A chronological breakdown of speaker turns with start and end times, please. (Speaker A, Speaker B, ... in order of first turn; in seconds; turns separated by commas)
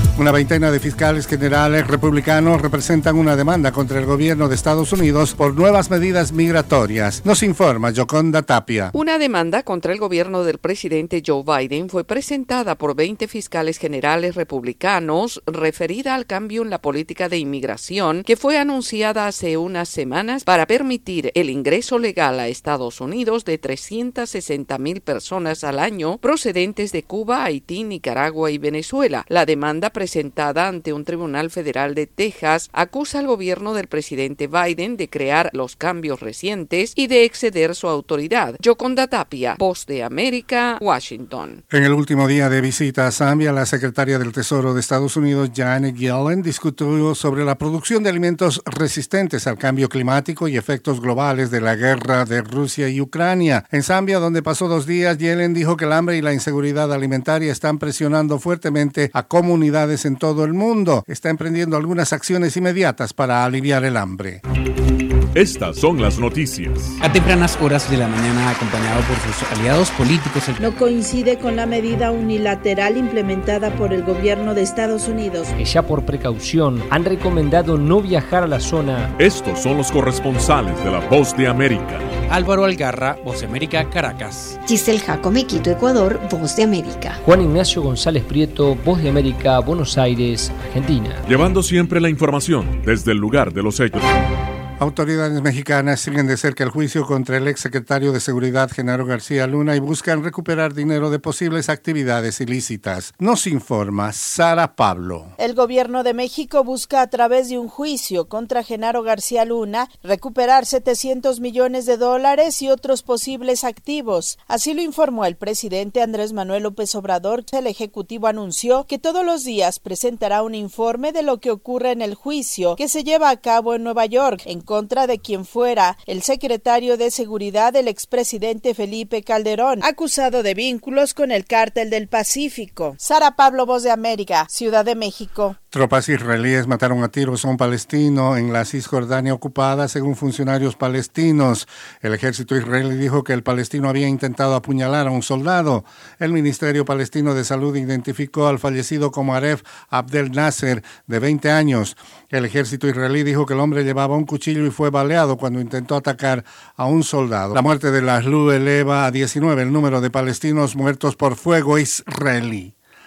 Speaker A: 0.2-8.9, Speaker B: 8.9-41.6, Speaker A: 41.7-64.4, Speaker C: 65.4-67.0, Speaker D: 67.0-70.8, Speaker E: 70.6-75.5, Speaker F: 75.6-79.1, Speaker C: 79.2-82.1, Speaker D: 82.3-84.6, Speaker G: 84.7-87.2, Speaker F: 87.2-91.2, Speaker C: 91.3-94.0, Speaker A: 94.8-105.3, Speaker E: 105.4-135.6, Speaker A: 135.7-162.7